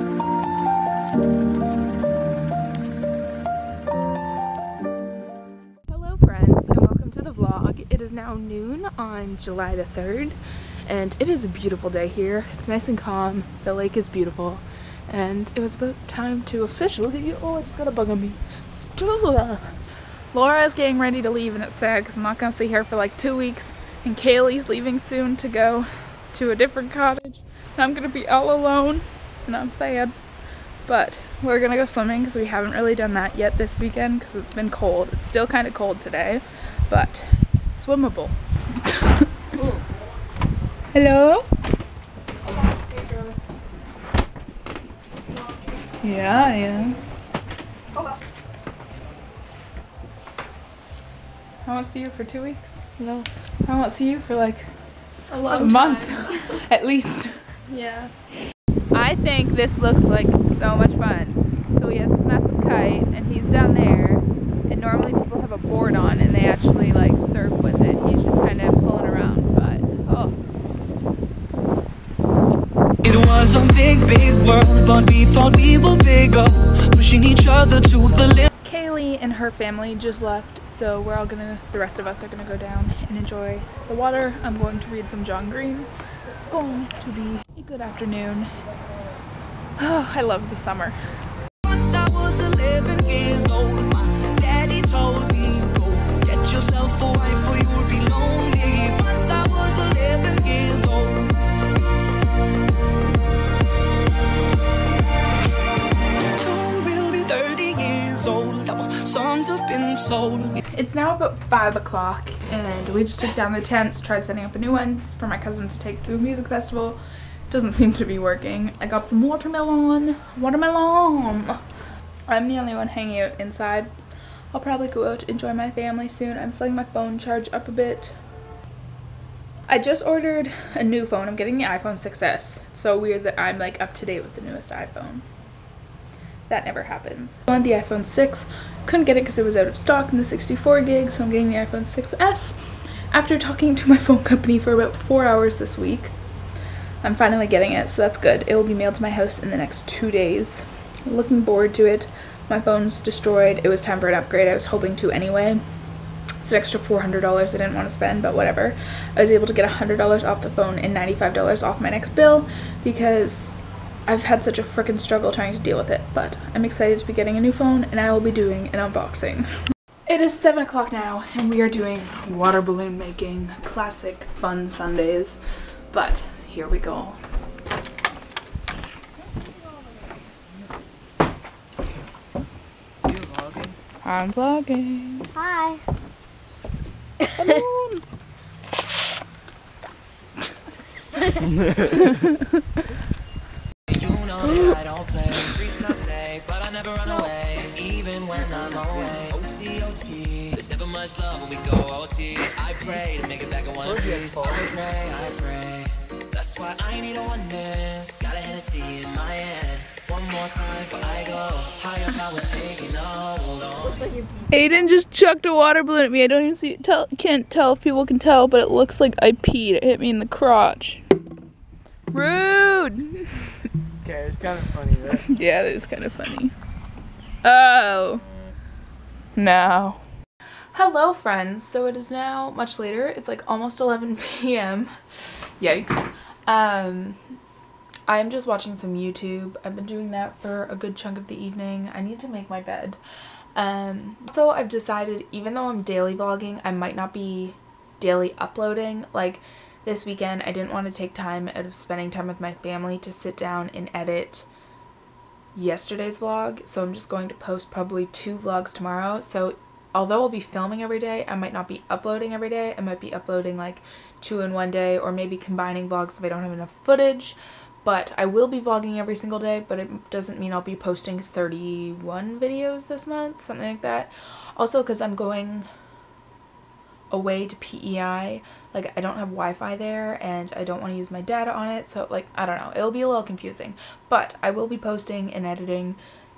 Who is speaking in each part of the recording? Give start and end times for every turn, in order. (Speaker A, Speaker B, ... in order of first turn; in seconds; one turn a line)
Speaker A: 5.9-19.7
Speaker A: 20.3-30.1
Speaker A: 30.9-39.3
Speaker A: 40.9-41.5
Speaker A: 46.0-47.0
Speaker A: 51.6-52.8
Speaker B: 53.0-53.3
Speaker A: 53.6-54.7
Speaker B: 55.3-56.4
Speaker A: 55.4-57.4
Speaker B: 57.7-58.1
Speaker A: 58.9-70.3
Speaker C: 73.0-78.5
Speaker A: 78.6-85.9
Speaker A: 86.5-88.5
Speaker A: 89.8-91.0
Speaker C: 91.6-101.3
Speaker C: 106.3-110.5
Speaker A: 110.7-121.6
Speaker A: 122.3-123.9
Speaker A: 124.5-128.2
Speaker A: 129.7-135.2
Speaker A: 136.5-146.1
Speaker A: 147.0-155.6
Speaker A: 156.4-169.5
Speaker A: 170.1-175.4
Speaker A: 175.9-177.2
Speaker D: 183.1-183.7
Speaker A: 184.0-185.3
Speaker B: 185.3-185.8
Speaker A: 187.3-188.1
Speaker A: 191.9-192.4
Speaker C: 193.9-214.1
Speaker D: 203.8-204.7
Speaker B: 213.9-214.6
Speaker A: 214.5-221.0
Speaker A: 222.1-223.7
Speaker D: 224.0-225.2
Speaker A: 225.1-226.5
Speaker A: 227.4-228.2
Speaker A: 229.3-230.0
Speaker A: 230.7-237.2
Speaker A: 238.1-243.0
Speaker A: 243.5-254.5
Speaker A: 255.5-275.7
Speaker A: 277.1-286.0